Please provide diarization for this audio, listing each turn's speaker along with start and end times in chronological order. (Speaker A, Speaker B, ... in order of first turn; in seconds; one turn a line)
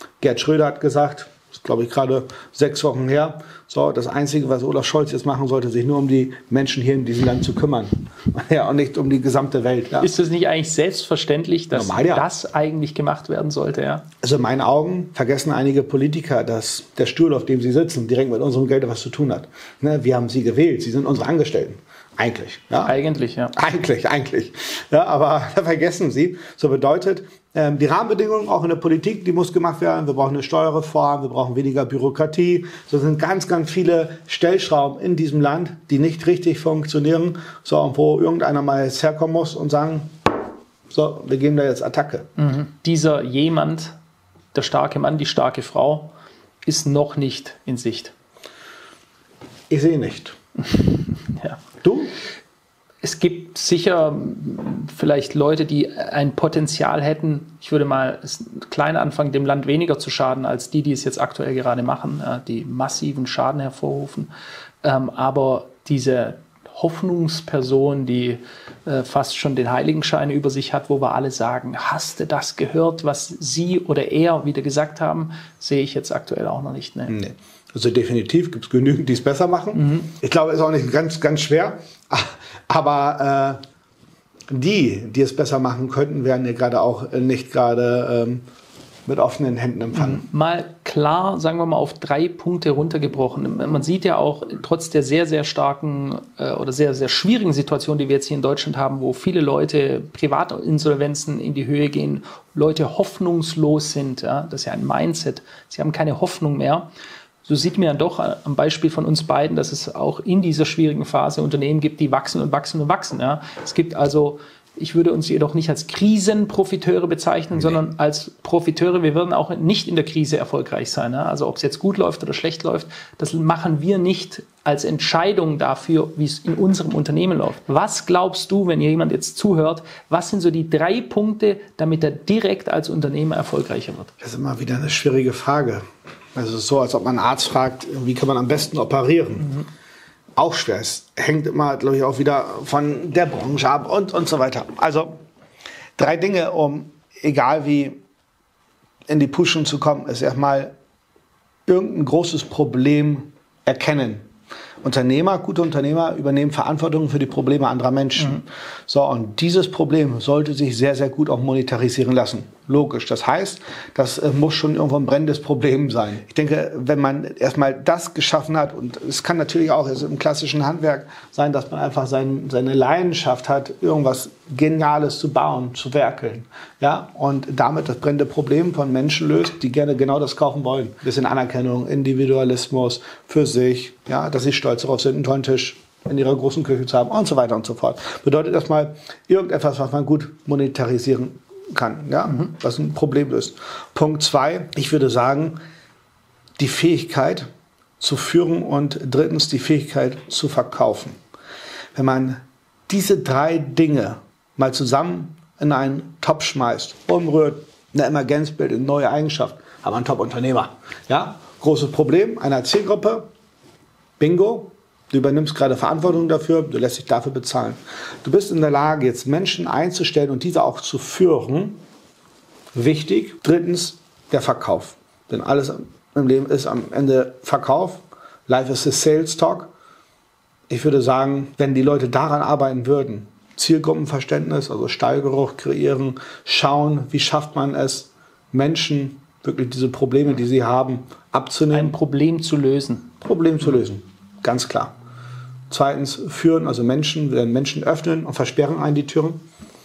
Speaker A: 0.2-10.1
Speaker B: 10.0-14.0
Speaker A: 11.7-12.3
Speaker A: 14.2-22.9
Speaker B: 22.8-23.5
Speaker A: 23.5-40.2
Speaker A: 40.9-42.3
Speaker B: 42.4-44.0
Speaker B: 44.5-46.1
Speaker B: 46.6-48.1
Speaker A: 49.7-50.4
Speaker B: 50.7-51.6
Speaker A: 51.8-52.1
Speaker B: 53.0-64.3
Speaker B: 64.8-77.1
Speaker A: 77.1-83.6
Speaker B: 79.7-80.1
Speaker A: 84.5-88.4
Speaker A: 89.0-90.2
Speaker B: 89.9-106.9
Speaker B: 107.4-134.1
Speaker A: 134.2-139.5
Speaker A: 140.3-145.2
Speaker A: 146.0-148.0
Speaker A: 149.1-150.7
Speaker A: 151.7-154.3
Speaker A: 154.8-195.6
Speaker A: 196.6-197.5
Speaker A: 198.0-201.2
Speaker A: 201.9-213.3
Speaker A: 214.2-221.8
Speaker A: 222.7-229.7
Speaker A: 230.7-241.9
Speaker B: 241.7-243.1
Speaker A: 243.2-244.9
Speaker A: 245.7-249.4